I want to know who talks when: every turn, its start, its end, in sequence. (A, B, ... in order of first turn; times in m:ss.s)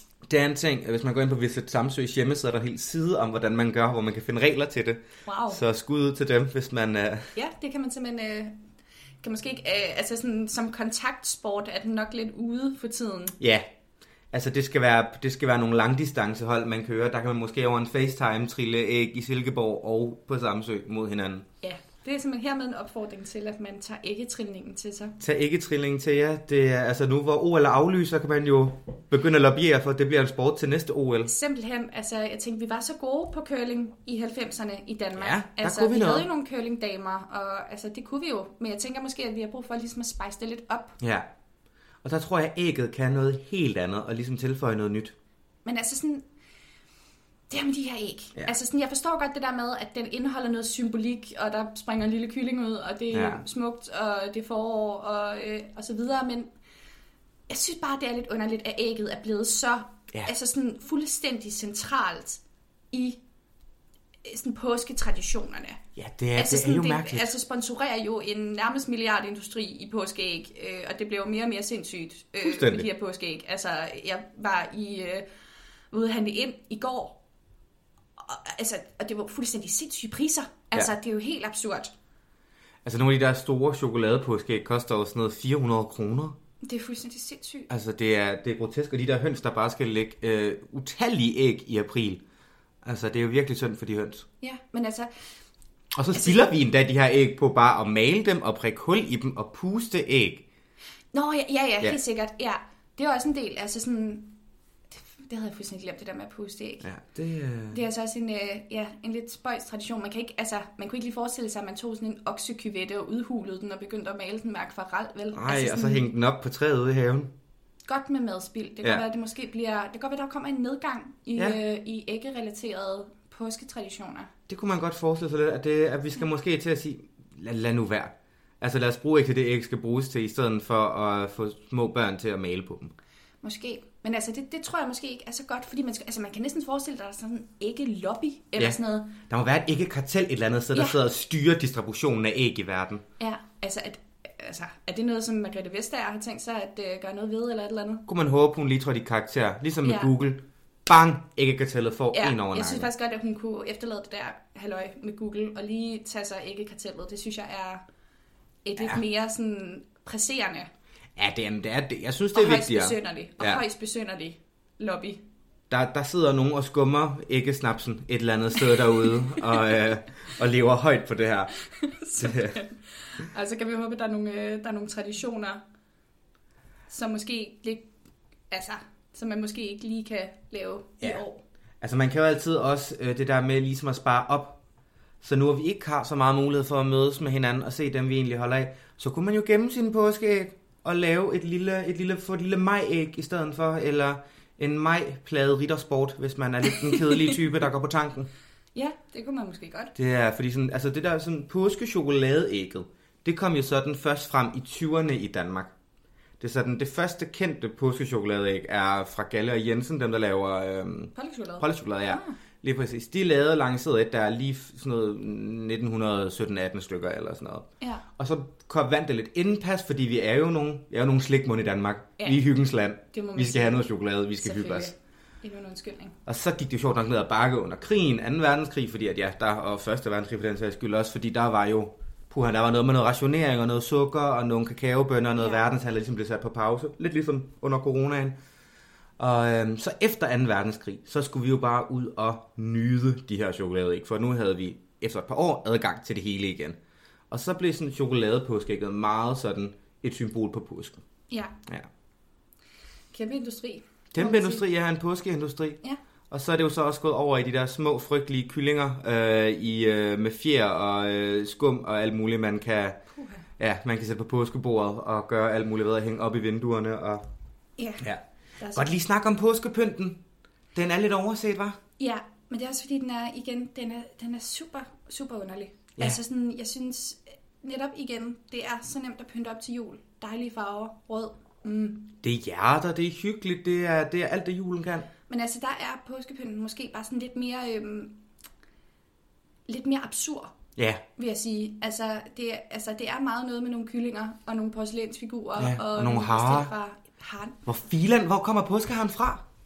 0:00.3-0:07.3 A
0:05.2-0:05.6 B
0:07.4-0:08.6 B
0:09.2-0:13.4 B
0:13.4-0:13.7 A
0:14.3-0:21.5 A
0:21.6-0:25.2 B
0:25.2-0:31.3 A
0:31.2-0:41.0 B
0:35.2-0:36.3 A
0:41.0-0:41.3 A
0:42.0-0:45.1 A
0:45.6-0:46.2 B
0:47.5-0:56.5 B
0:53.1-0:53.4 A
0:57.5-1:03.2 B
1:04.2-1:05.8 B
1:06.0-1:07.3 A
1:06.4-1:15.2 B
1:12.4-1:12.9 A
1:15.9-1:17.2 B
1:18.2-1:21.9 B
1:22.8-1:26.4 A
1:26.6-1:27.7 B
1:27.7-1:32.2 A
1:32.8-1:34.3 A
1:34.4-1:35.1 B
1:35.9-1:40.4 A
1:36.1-1:36.4 B
1:41.1-1:44.4 B
1:44.9-1:46.9 B
1:46.8-1:47.8 A
1:47.7-1:56.1 B
1:55.3-1:57.3 A
1:57.9-2:04.3 B
2:04.5-2:12.9 A
2:13.4-2:19.2 B
2:18.6-2:23.0 A
2:20.7-2:21.0 B
2:23.2-2:28.0 B
2:28.1-2:32.9 A
2:29.8-2:30.1 B
2:32.1-2:37.8 B
2:38.6-2:40.7 B
2:41.2-2:43.6 A
2:42.3-2:45.2 B
2:45.7-2:51.5 A
2:49.4-2:49.8 B
2:51.6-2:55.6 B
2:52.2-2:52.6 A
2:56.9-2:57.9 B
2:58.5-3:01.4 B
3:01.8-3:04.6 A
3:05.2-3:18.3 A
3:16.9-3:17.4 B
3:18.8-3:20.0 B
3:20.0-3:25.7 A
3:26.4-3:37.7 A
3:31.2-3:32.4 B
3:38.2-3:44.9 A
3:42.2-3:42.4 B
3:43.1-3:43.9 B
3:44.4-3:46.2 B
3:46.3-3:58.4 A
3:55.4-3:55.6 B
3:59.2-4:06.8 A
4:07.3-4:11.0 A
4:11.3-4:11.6 B
4:13.1-4:14.6 B
4:14.1-4:15.8 A
4:16.3-4:23.0 A
4:23.1-4:23.5 B
4:23.6-4:27.2 A
4:27.8-4:28.1 B
4:28.6-4:28.9 B
4:28.7-4:30.2 A
4:30.8-4:31.8 A
4:32.0-4:42.1 B
4:42.2-4:45.1 A
4:45.3-4:48.2 B
4:49.7-4:50.5 B
4:50.8-4:51.0 A
4:51.2-4:57.6 B
4:55.6-4:56.7 A
4:57.7-4:59.4 A